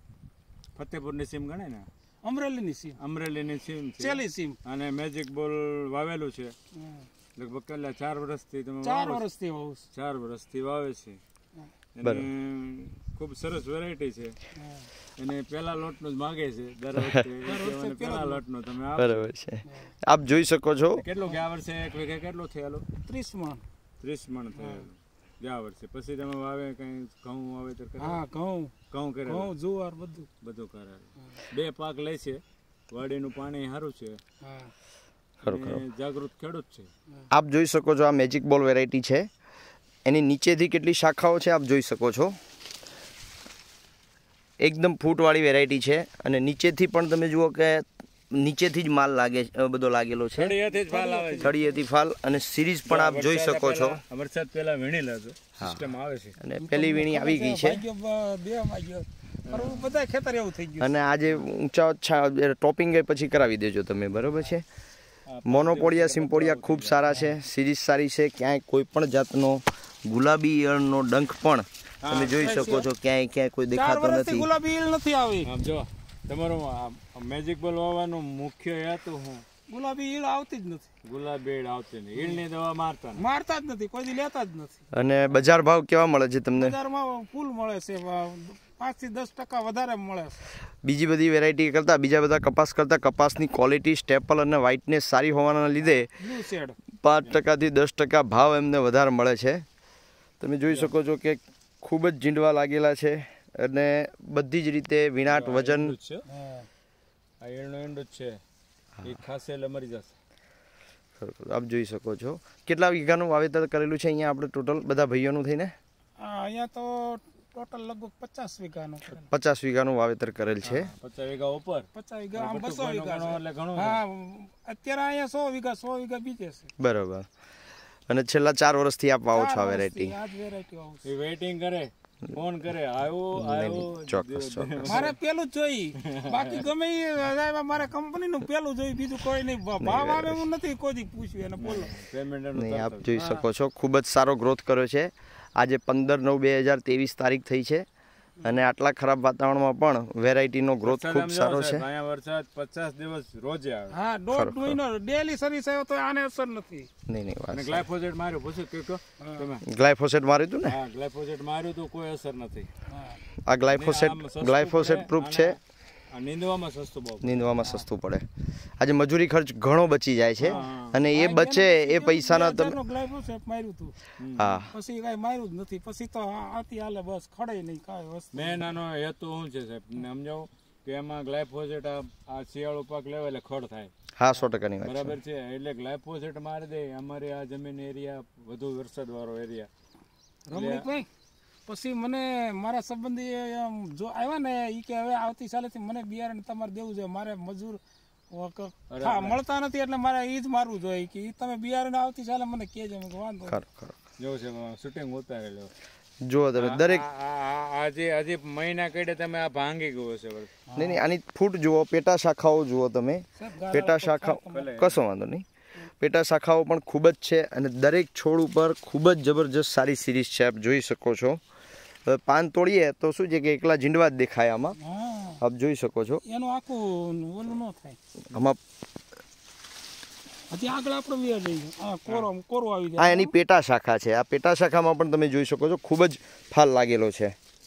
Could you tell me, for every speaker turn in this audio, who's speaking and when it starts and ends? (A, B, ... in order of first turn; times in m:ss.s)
0:00.8-0:01.9 A
0:02.2-0:03.0 B
0:03.0-0:06.5 A
0:04.0-0:04.6 B
0:06.8-0:07.1 B
0:07.4-0:09.2 A
0:08.8-0:09.9 B
0:09.9-0:11.2 A
0:12.0-0:14.4 A
0:14.6-0:14.9 B
0:15.2-0:19.3 A
0:17.4-0:18.4 B
0:19.0-0:21.0 C
0:21.0-0:22.8 A
0:23.0-0:23.6 B
0:24.0-0:28.2 A
0:24.6-0:24.9 B
0:28.0-0:28.7 B
0:28.9-0:29.5 A
0:29.3-0:30.3 B
0:30.4-0:34.2 A
0:34.4-0:34.7 B
0:35.4-0:35.8 C
0:35.4-0:36.9 A
0:37.3-0:39.3 C
0:40.0-0:42.4 C
0:44.6-0:50.6 C
0:50.4-0:51.6 A
0:50.7-0:51.7 B
0:51.4-0:54.0 C
0:52.9-0:56.4 A
0:55.6-0:55.9 C
0:56.4-0:57.8 C
0:56.6-1:01.0 B
0:59.5-1:00.0 A
1:00.8-1:04.6 C
1:05.3-1:07.2 A
1:05.5-1:14.5 C
1:12.0-1:12.8 A
1:12.3-1:12.9 B
1:13.7-1:15.5 B
1:15.4-1:19.4 A
1:19.7-1:20.9 B
1:21.0-1:23.2 A
1:23.2-1:24.8 B
1:24.9-1:26.8 C
1:26.5-1:30.4 B
1:30.8-1:36.1 C
1:35.8-1:36.8 B
1:37.0-1:39.6 C
1:40.4-1:46.0 C
1:40.7-1:40.9 A
1:45.2-1:46.2 A
1:46.3-1:46.7 B
1:47.4-1:48.4 A
1:49.0-1:50.2 A
1:51.2-1:55.7 C
1:56.2-1:59.3 B
1:59.3-2:00.9 C
2:00.6-2:04.0 A
2:01.9-2:06.7 B
2:06.8-2:07.3 C
2:08.1-2:10.2 C
2:09.3-2:11.1 B
2:11.0-2:15.2 A
2:13.4-2:15.1 C
2:14.8-2:22.0 B
2:16.0-2:16.6 A
2:19.8-2:20.4 C
2:21.6-2:23.1 A
2:22.6-2:27.8 C
2:23.1-2:23.4 B
2:28.4-2:31.8 C
2:30.8-2:34.0 A
2:33.9-2:36.9 B
2:34.3-2:34.8 C
2:37.1-2:37.8 C
2:37.5-2:39.6 A
2:39.2-2:39.5 B
2:39.6-2:40.8 C
2:40.6-2:42.7 A
2:42.9-2:43.2 B
2:43.5-2:45.6 C
2:43.7-2:45.6 A
2:46.1-2:47.6 A
2:47.2-2:48.3 C
2:48.8-2:52.8 C
2:50.4-2:51.0 A
2:50.4-2:54.0 B
2:54.2-2:54.6 A
2:54.4-2:54.7 C
2:54.7-2:58.6 B
2:58.3-3:03.9 A
3:04.2-3:05.2 C
3:04.8-3:09.7 A
3:10.5-3:11.1 B
3:10.5-3:10.9 A
3:11.7-3:17.8 B
3:18.3-3:23.6 B
3:18.9-3:19.4 A
3:23.5-3:24.0 C
3:24.2-3:25.7 A
3:26.2-3:27.1 C
3:26.6-3:30.5 A
3:30.7-3:31.0 B
3:30.8-3:35.4 C
3:33.4-3:34.8 B
3:34.5-3:35.0 A
3:36.0-3:41.4 C
3:42.1-3:44.8 C
3:44.8-3:45.4 B
3:45.4-3:46.2 C
3:46.2-3:48.0 B
3:48.3-3:48.6 C
3:50.5-3:53.3 B
3:53.0-3:57.4 C